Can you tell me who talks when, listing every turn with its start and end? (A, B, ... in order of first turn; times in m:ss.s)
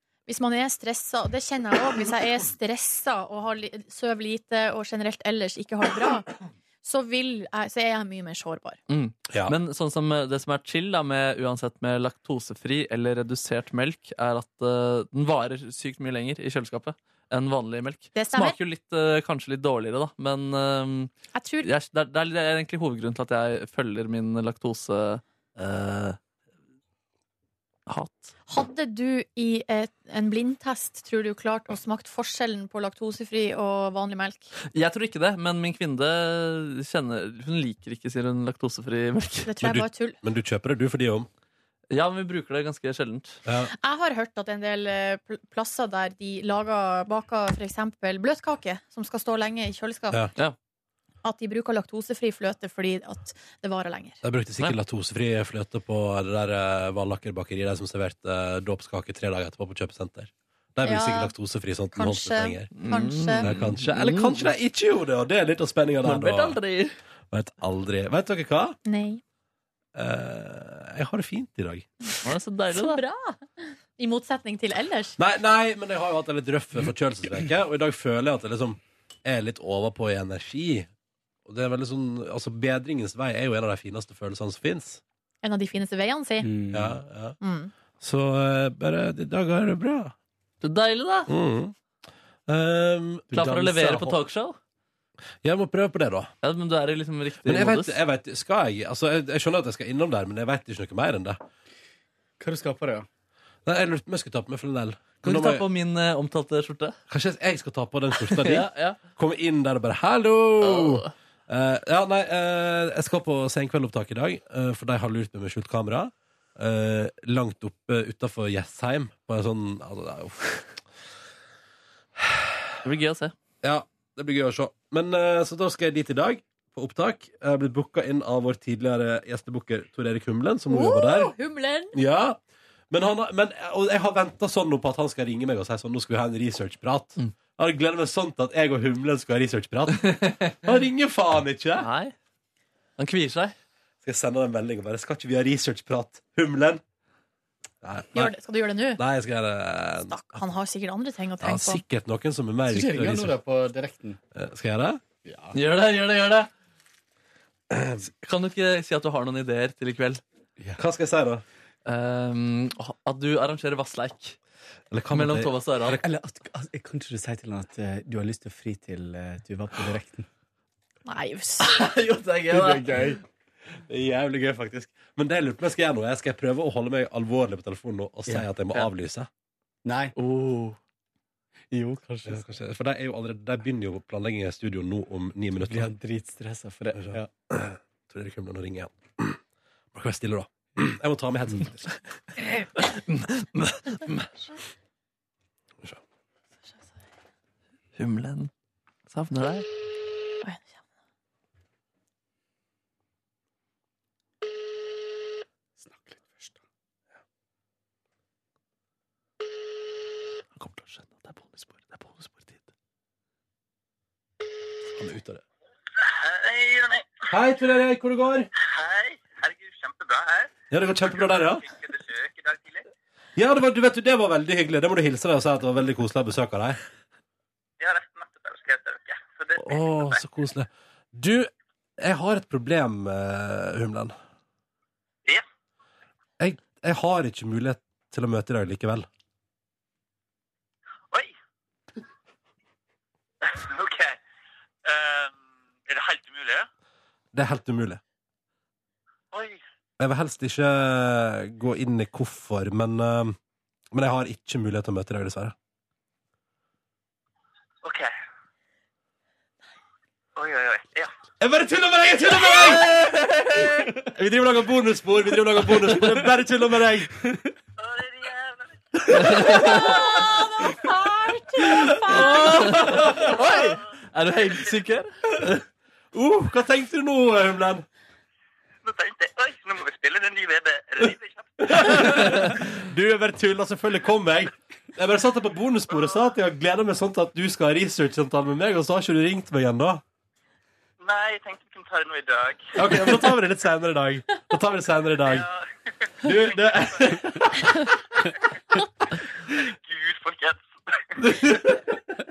0:00.3-0:06.3 A
0:06.8-0:08.8 A
0:08.9-0:21.1 B
0:09.3-0:09.6 C
0:18.1-0:18.6 A
0:21.3-0:21.7 A
0:21.6-0:26.2 B
0:27.9-0:28.3 B
0:28.5-0:34.5 A
0:34.7-0:39.5 B
0:39.5-0:40.2 A
0:39.6-0:41.3 C
0:41.9-0:43.4 B
0:43.4-0:43.7 C
0:43.7-0:50.2 A
0:51.2-0:54.2 A
0:54.2-1:06.6 C
1:00.8-1:01.3 A
1:01.9-1:03.5 A
1:02.8-1:04.5 B
1:06.0-1:07.0 B
1:07.3-1:08.8 C
1:08.8-1:09.2 A
1:09.9-1:11.9 C
1:12.2-1:13.0 B
1:12.7-1:15.2 A
1:15.2-1:20.9 C
1:21.4-1:25.0 C
1:25.4-1:26.5 A
1:26.4-1:27.0 D
1:26.7-1:27.4 C
1:27.4-1:27.7 A
1:28.0-1:30.1 C
1:30.6-1:31.3 B
1:31.3-1:31.7 C
1:32.5-1:34.0 C
1:33.3-1:34.6 B
1:33.4-1:34.1 D
1:35.4-1:36.3 C
1:36.4-1:38.0 B
1:37.4-1:41.4 C
1:42.4-1:43.1 D
1:43.6-1:45.6 C
1:45.2-1:47.0 B
1:47.1-2:00.7 C
1:48.2-1:49.0 B
1:50.6-1:51.1 B
2:02.2-2:02.7 C
2:02.8-2:03.3 B
2:03.6-2:11.3 C
2:10.7-2:12.0 A
2:11.9-2:21.9 C
2:21.8-2:22.1 B
2:23.0-2:23.5 B
2:24.0-2:26.8 C
2:27.8-2:28.3 C
2:28.1-2:29.0 A
2:29.0-2:30.4 C
2:30.0-2:31.8 A
2:31.4-2:33.4 C
2:32.7-2:34.2 D
2:34.3-2:35.0 C
2:35.2-2:35.6 D
2:35.5-2:36.5 B
2:37.7-2:38.0 C
2:38.2-2:40.2 B
2:40.8-2:41.4 C
2:41.8-2:44.4 B
2:44.9-2:46.0 C
2:45.1-2:46.0 B
2:46.0-2:50.3 D
2:51.0-2:51.7 A
2:51.6-2:53.0 B
2:52.5-2:53.2 D
2:53.9-2:59.3 C
2:59.8-3:00.1 D
3:00.2-3:00.8 B
3:01.7-3:02.4 D
3:02.2-3:05.9 C
3:05.6-3:07.3 D
3:07.0-3:09.4 C
3:09.9-3:11.9 C
3:12.8-3:14.3 B
3:18.0-3:18.5 B
3:19.1-3:19.6 B
3:20.4-3:20.7 A
3:25.8-3:26.6 D
3:30.6-3:32.6 B
3:35.0-3:35.4 C
3:36.0-3:37.3 E
3:37.3-3:38.5 C
3:38.6-3:42.8 E
3:40.7-3:41.7 C
3:43.4-3:46.8 C
3:47.8-3:50.2 E
3:49.6-3:54.1 C
3:56.4-3:59.1 C
4:03.4-4:04.2 E
4:04.8-4:05.3 E
4:05.9-4:06.7 E
4:07.3-4:08.0 C
4:09.3-4:09.6 E
4:10.0-4:13.4 C
4:13.9-4:15.5 C
4:17.8-4:18.1 E
4:20.4-4:21.1 E
4:21.4-4:23.2 C
4:22.9-4:23.7 B
4:24.1-4:27.1 C
4:27.8-4:28.8 E
4:29.1-4:29.9 C
4:29.2-4:29.7 B
4:29.6-4:32.6 A
4:32.1-4:35.1 B
4:32.1-4:33.3 C
4:36.1-4:37.8 C
4:38.8-4:41.6 E
4:41.6-4:50.0 C
4:45.9-4:46.2 E
4:51.0-4:52.8 E
4:52.8-4:55.4 C
4:55.2-4:55.6 E
4:56.2-4:57.9 C
4:56.3-4:57.0 E
4:59.5-5:00.6 E
5:01.2-5:01.9 C